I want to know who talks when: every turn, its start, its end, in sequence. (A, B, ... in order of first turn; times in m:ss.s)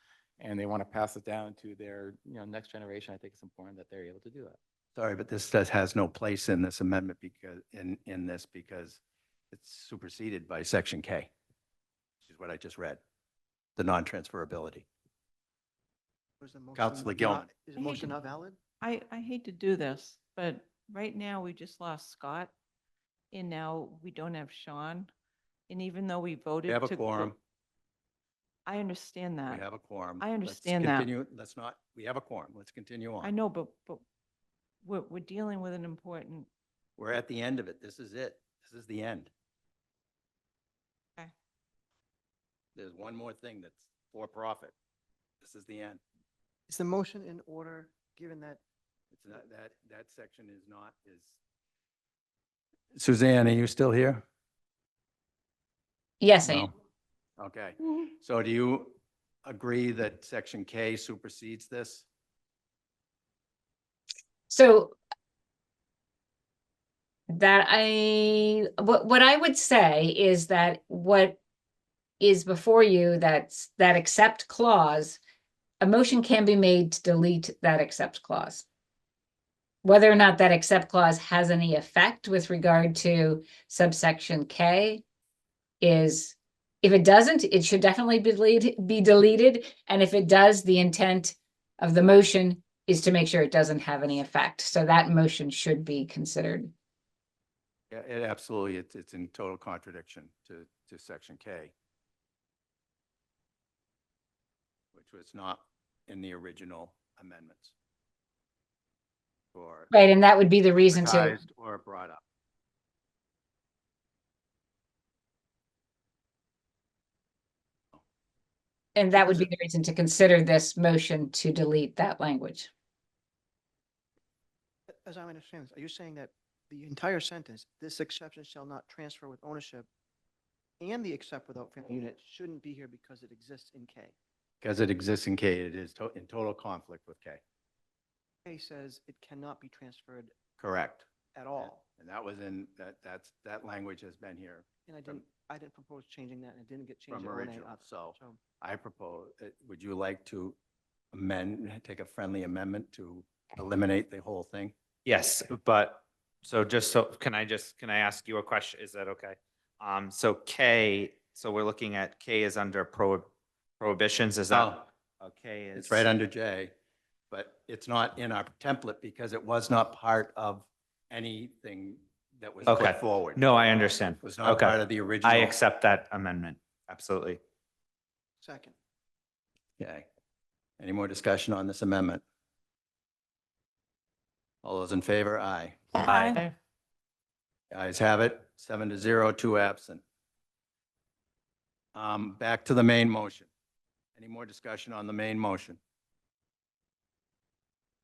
0:00.4-0:04.6 A
0:05.0-0:11.3 B
0:12.2-0:13.0 B
0:13.8-0:14.9 B
0:16.4-0:18.6 C
0:16.7-0:17.4 B
0:17.8-0:18.1 D
0:18.8-0:22.5 D
0:23.3-0:25.1 D
0:25.7-0:27.3 D
0:26.6-0:27.4 B
0:28.6-0:29.7 D
0:29.5-0:33.3 B
0:30.2-0:31.1 D
0:33.2-0:34.0 D
0:34.8-0:36.5 D
0:37.0-0:39.3 B
0:42.7-0:44.7 B
0:45.4-0:46.0 B
0:46.7-0:48.6 C
0:49.1-0:51.4 B
0:52.9-0:54.2 B
0:56.3-0:56.6 E
0:56.4-0:56.7 B
0:57.4-1:02.0 B
1:04.5-1:04.9 E
1:07.4-1:11.4 E
1:12.2-1:15.2 E
1:15.8-1:18.6 E
1:19.8-1:25.0 E
1:25.8-1:36.7 E
1:37.9-1:41.7 B
1:44.9-1:47.7 B
1:49.5-1:49.9 B
1:49.9-1:51.3 E
1:50.9-1:52.2 B
1:59.0-2:02.7 E
1:59.2-1:59.4 B
2:04.9-2:09.9 C
2:10.8-2:14.1 C
2:14.6-2:17.4 B
2:18.4-2:20.3 C
2:20.6-2:21.0 B
2:21.3-2:21.8 C
2:21.6-2:25.2 B
2:24.8-2:28.4 C
2:27.1-2:30.6 B
2:31.1-2:34.7 B
2:35.0-2:46.0 F
2:44.5-2:44.8 B
2:45.7-2:46.7 B
2:47.3-2:53.5 B
2:52.7-2:57.4 F
2:54.2-2:55.6 B
2:58.4-2:58.7 C
2:59.8-3:00.1 B
3:00.8-3:02.2 B
3:04.6-3:06.1 B
3:06.0-3:06.5 D
3:07.7-3:10.0 B
3:11.9-3:13.5 B
3:14.2-3:15.8 B